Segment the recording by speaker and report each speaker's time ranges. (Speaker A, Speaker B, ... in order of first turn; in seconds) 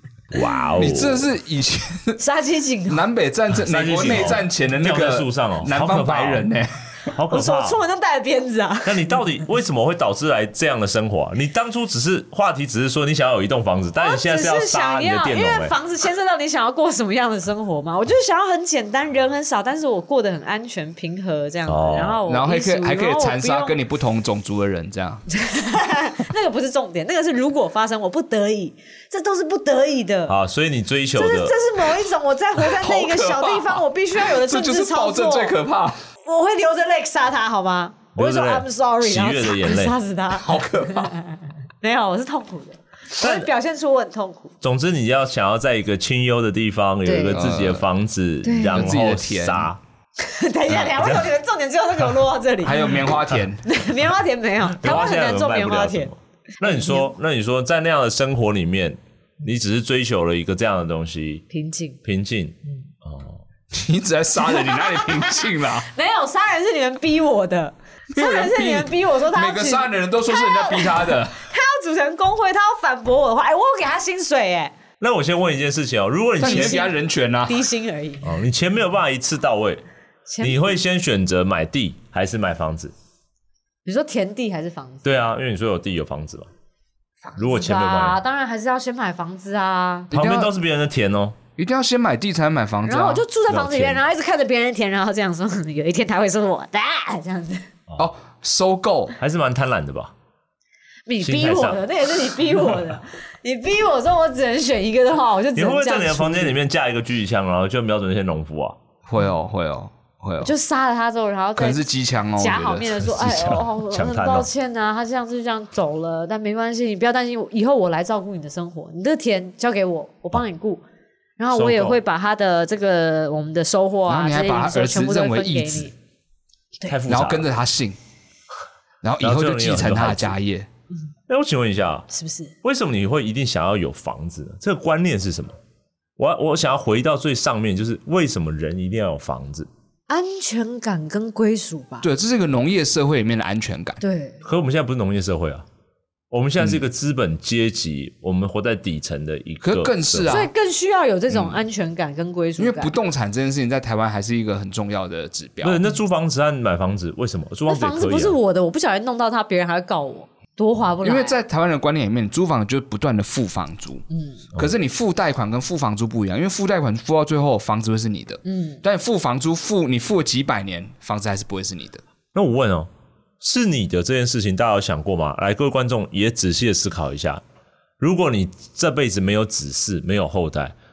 Speaker A: 0.3-1.3, 3.6-6.5, 7.1-7.8, 8.8-15.8, 21.7-22.2, 30.3-31.6, 38.2-40.0, 43.2-43.5, 44.6-49.8, 54.7-61.4, 62.0-63.4, 75.0-76.9, 78.2-79.8, 80.4-82.9, 85.0-86.5, 87.4-88.2, 90.1-91.4, 93.5-94.0, 99.2-100.1, 101.2-101.8, 105.5-108.8, 113.0-114.5, 121.5-122.0, 126.9-127.5, 129.2-130.4, 131.3-132.1, 132.6-135.6, 136.2-139.7, 144.4-145.7, 146.3-150.4, 155.6-158.4, 172.3-172.9, 173.4-177.4, 178.0-180.8
Speaker B: 0.8-2.2, 2.9-6.9, 22.3-25.2, 32.6-36.0, 40.4-41.2, 47.3-47.8, 48.7-49.7, 52.6-53.6, 63.7-65.9, 68.1-71.5, 76.4-77.7, 90.1-90.5, 91.6-93.2, 98.0-99.2, 109.1-110.5, 111.6-113.0, 124.1-125.9, 127.1-128.0, 129.0-130.7, 142.0-144.0, 149.6-150.5, 152.6-155.8, 161.0-172.0
Speaker C: 2.2-3.1, 7.3-9.2, 14.0-23.8, 25.3-30.4, 31.2-35.6, 36.2-44.5, 47.0-47.4, 48.4-48.9, 50.2-53.0, 53.6-57.1, 61.5-62.0, 64.4-74.7, 76.4-76.9, 77.5-78.4, 80.3-80.7, 83.8-85.0, 87.3-90.1, 92.9-97.7, 101.1-106.6, 110.4-120.8, 121.4-125.9, 132.1-132.5, 140.1-142.1, 144.0-144.4, 150.3-152.9, 157.7-161.4, 164.1-164.4, 168.4-168.8